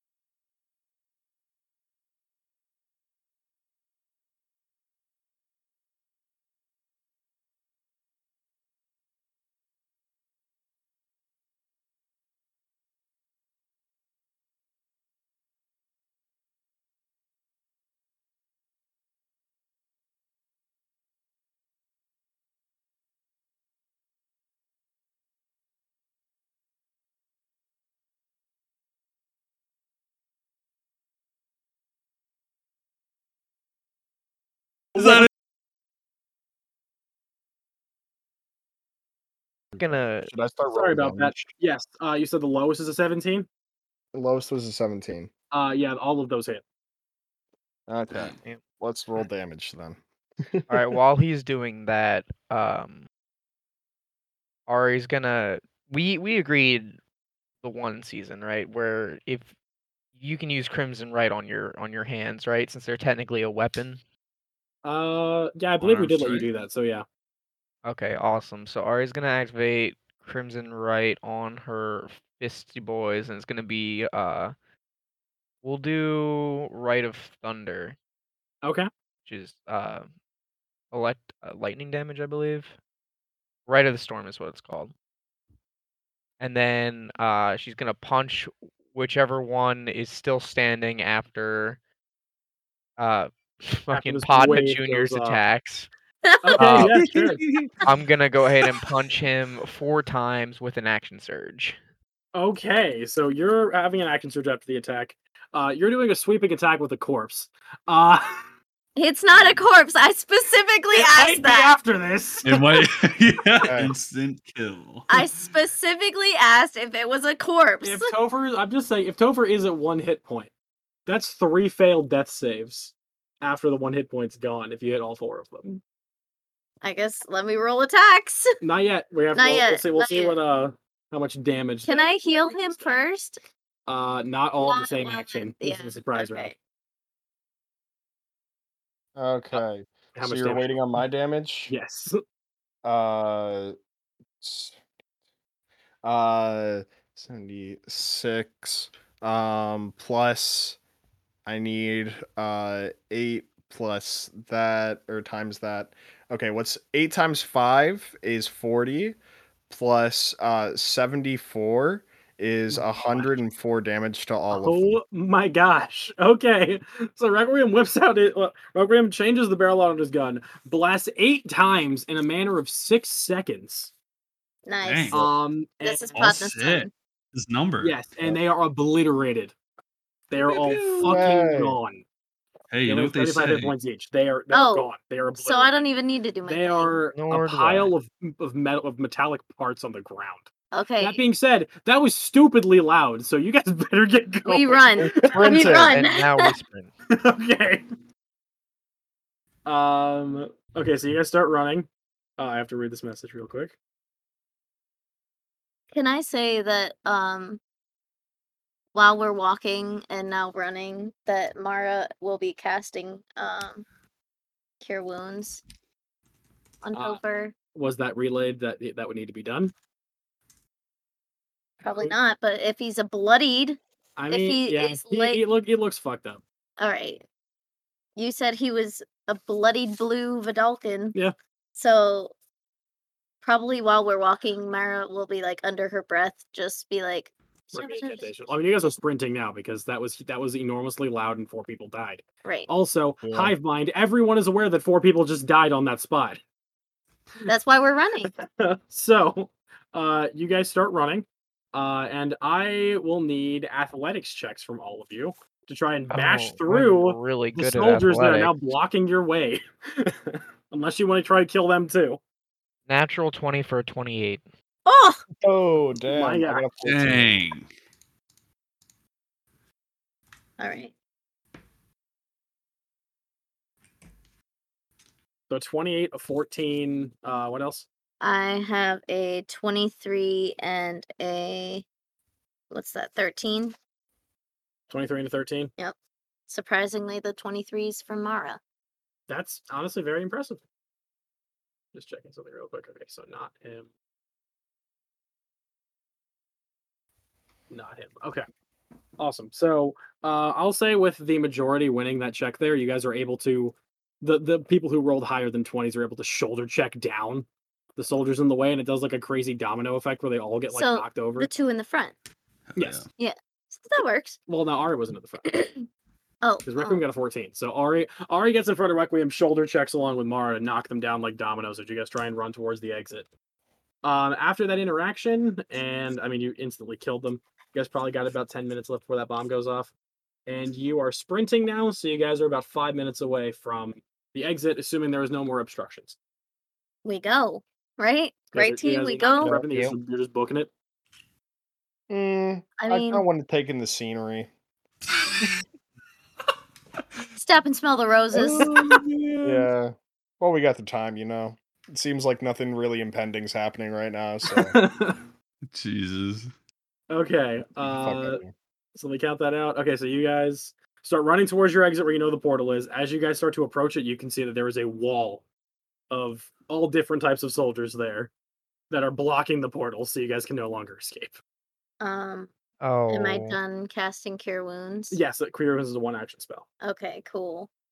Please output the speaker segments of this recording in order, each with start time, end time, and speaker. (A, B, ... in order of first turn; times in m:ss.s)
0:35.0-0:35.3 A
0:39.7-0:41.4 B
0:39.8-0:40.3 C
0:40.7-0:43.5 D
0:44.1-0:45.3 B
0:45.5-0:46.6 D
0:47.9-0:51.0 B
0:50.7-0:53.1 C
0:54.7-0:57.0 C
0:57.6-0:59.5 C
1:00.2-1:04.0 C
1:04.8-1:07.0 D
1:05.8-1:06.5 A
1:07.8-1:14.5 C
1:15.6-1:18.0 C
1:19.3-1:20.1 C
1:20.9-1:22.8 C
1:23.7-1:24.9 C
1:26.4-1:31.8 C
1:33.0-1:35.9 C
1:33.9-1:35.4 D
1:36.2-1:36.8 E
1:36.4-1:37.4 D
1:36.6-1:37.0 C
1:36.8-1:37.7 A
1:37.8-1:41.8 C
1:42.3-1:48.4 D
1:49.0-1:51.7 E
1:50.9-1:52.9 D
1:52.4-1:55.2 A
1:53.7-1:53.9 B
1:55.1-1:58.1 E
1:57.8-2:00.5 D
2:01.1-2:05.8 D
2:06.8-2:08.5 E
2:08.6-2:12.6 D
2:09.3-2:10.4 E
2:11.8-2:13.4 E
2:13.9-2:16.5 D
2:14.6-2:16.6 E
2:19.2-2:21.7 B
2:20.2-2:20.7 D
2:21.7-2:22.2 D
2:22.8-2:23.7 B
2:24.4-2:24.8 B
2:26.0-2:30.8 B
2:31.5-2:39.2 B
2:39.7-2:45.0 B
2:42.7-2:43.4 D
2:44.5-2:53.9 D
2:54.7-2:55.3 E
2:54.8-2:55.3 A
2:55.1-2:56.3 D
2:55.8-2:56.9 E
2:56.2-2:58.0 A
2:57.8-2:59.6 D
3:00.3-3:02.0 D
3:00.3-3:01.2 A
3:01.0-3:01.8 B
3:02.7-3:03.8 A
3:02.9-3:05.8 D
3:04.5-3:07.0 E
3:06.4-3:10.5 D
3:07.1-3:07.9 C
3:10.7-3:11.2 E
3:11.0-3:15.6 D
3:14.4-3:16.5 E
3:15.0-3:16.0 B
3:15.5-3:16.9 C
3:17.1-3:17.8 D
3:19.7-3:23.8 D
3:25.9-3:27.6 E
3:28.9-3:33.9 E
3:34.8-3:35.6 E
3:36.8-3:37.5 E
3:37.0-3:37.2 D
3:37.7-3:39.7 D
3:41.8-3:43.8 E
3:44.2-3:46.4 D
3:44.3-3:45.4 E
3:46.8-3:47.2 E
3:48.2-3:51.2 E
3:51.7-3:52.4 E
3:53.4-3:58.3 E
3:57.7-4:06.4 D
4:02.4-4:02.7 E
4:03.2-4:03.5 B
4:07.4-4:08.3 E
4:08.2-4:22.2 D
4:16.1-4:18.5 C
4:22.9-4:24.5 C
4:24.9-4:25.2 E
4:25.4-4:27.4 B
4:26.0-4:26.7 D
4:26.8-4:27.7 A
4:30.6-4:30.9 E
4:35.5-4:37.9 D
4:38.2-4:41.8 E
4:42.7-4:43.8 E
4:44.9-4:45.7 D
4:46.5-4:48.6 E
4:49.3-4:50.6 D
4:51.9-4:53.9 D
4:57.7-4:58.4 D
4:59.2-5:11.5 D
5:10.7-5:12.2 E
5:12.7-5:13.1 A
5:12.8-5:13.0 D
5:13.2-5:14.4 E
5:14.5-5:15.6 D
5:15.4-5:15.8 E
5:16.4-5:17.0 E
5:16.7-5:23.3 D
5:24.0-5:29.9 D
5:30.5-5:36.2 D
5:37.0-5:39.6 E
5:38.5-5:40.7 D
5:39.5-5:39.9 C
5:39.6-5:39.9 B
5:42.1-5:44.5 B
5:42.8-5:43.2 E
5:47.4-5:48.7 E
5:48.4-5:49.7 A
5:48.5-5:48.9 D
5:49.4-5:54.8 B
5:54.5-5:55.2 D
5:55.7-5:56.5 A
5:57.1-5:58.4 D
5:57.8-5:58.5 B
5:59.0-6:05.4 D
6:06.1-6:08.3 D
6:08.9-6:11.4 D
6:12.0-6:12.5 E
6:12.8-6:13.6 C
6:13.1-6:15.2 E
6:15.1-6:16.7 D
6:16.8-6:17.7 E